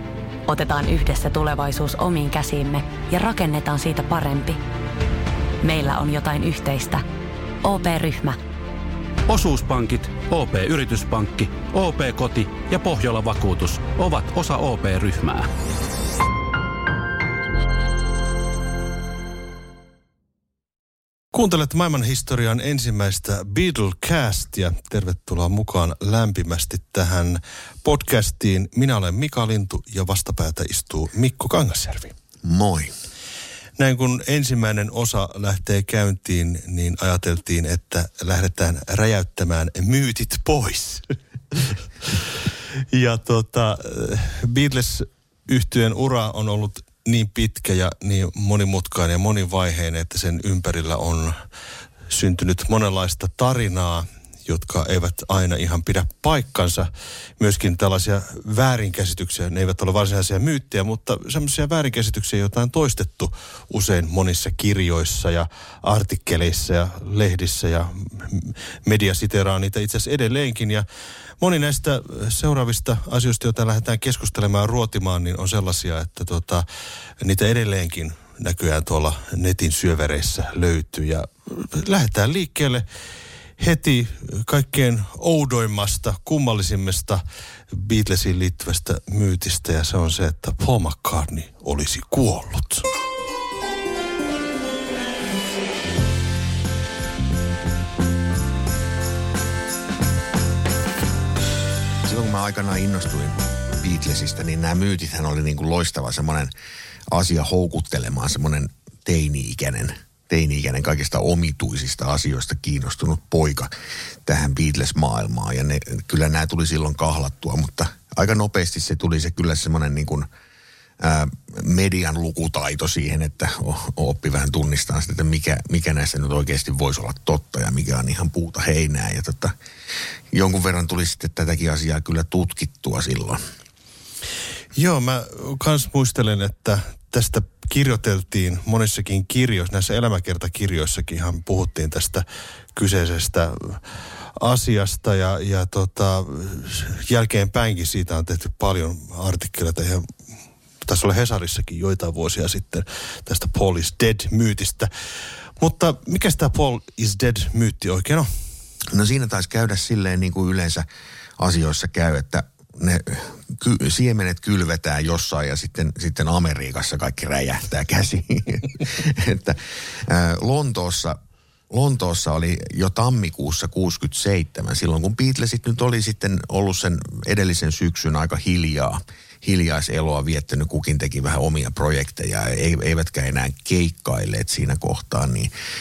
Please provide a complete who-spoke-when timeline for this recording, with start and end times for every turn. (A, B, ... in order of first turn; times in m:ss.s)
0:00.5-0:04.6 A
0:05.6-0:07.0 A
0:07.6-0:08.4 A
0:09.3-0:15.5 B
0:21.3-0:32.1 C
0:32.4-0:32.9 D
0:33.8-0:51.4 C
0:52.1-1:10.8 C
1:11.4-1:16.6 C
1:17.2-1:22.8 C
1:23.6-1:32.9 C
1:42.0-1:46.5 D
1:47.1-1:53.7 D
1:54.2-2:00.3 D
2:01.0-2:09.5 D
2:10.3-2:13.4 D
2:14.7-2:22.2 C
2:22.7-2:23.8 C
2:24.4-2:30.1 C
2:30.8-2:34.9 C
2:35.6-2:38.3 C
2:38.9-2:40.8 D
2:41.4-2:51.2 D
2:51.7-3:05.5 D